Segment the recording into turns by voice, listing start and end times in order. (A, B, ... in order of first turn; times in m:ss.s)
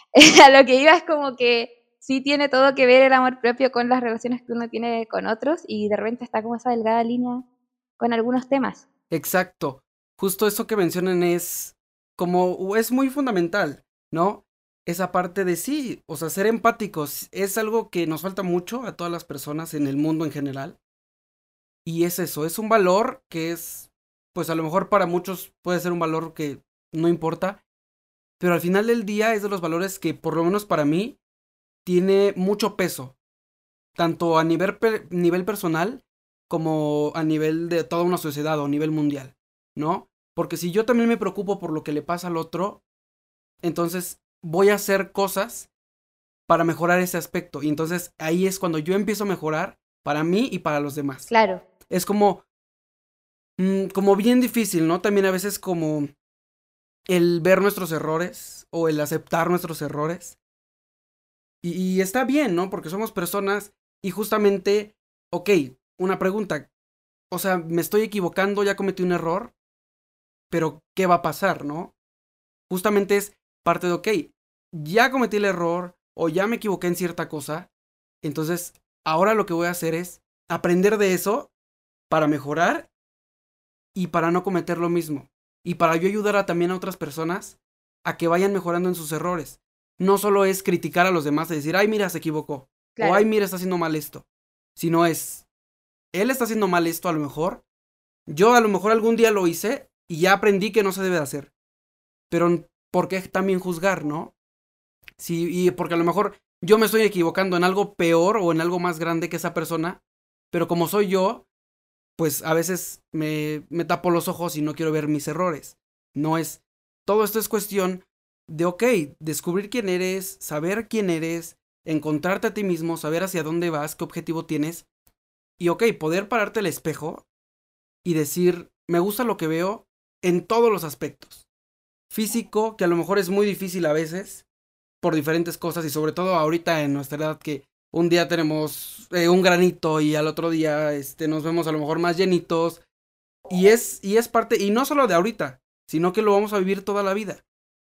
0:00.1-0:07.4 A
0:08.0-0:08.8 A
0:09.1-0:20.8 B
0:21.8-0:27.6 B
0:28.4-0:31.2 B
0:31.8-0:33.2 B
0:34.0-0:42.8 B
0:43.6-0:45.7 B
0:46.5-0:51.3 B
0:51.3-0:51.6 A
0:51.9-0:52.4 B
0:53.6-0:56.1 B
0:57.1-1:00.4 B
1:01.6-1:06.7 B
1:07.3-1:09.5 B
1:10.5-1:11.9 B
1:12.7-1:17.7 B
1:18.2-1:21.5 B
1:22.1-1:22.9 B
1:23.9-1:34.2 B
1:33.0-1:33.3 A
1:34.8-1:35.4 B
1:36.1-1:37.6 B
1:38.3-1:41.5 B
1:42.3-1:44.3 B
1:45.2-1:51.4 B
1:52.2-2:04.8 B
2:05.6-2:07.2 B
2:08.0-2:11.4 B
2:12.1-2:14.4 B
2:15.0-2:22.8 B
2:23.5-2:27.4 B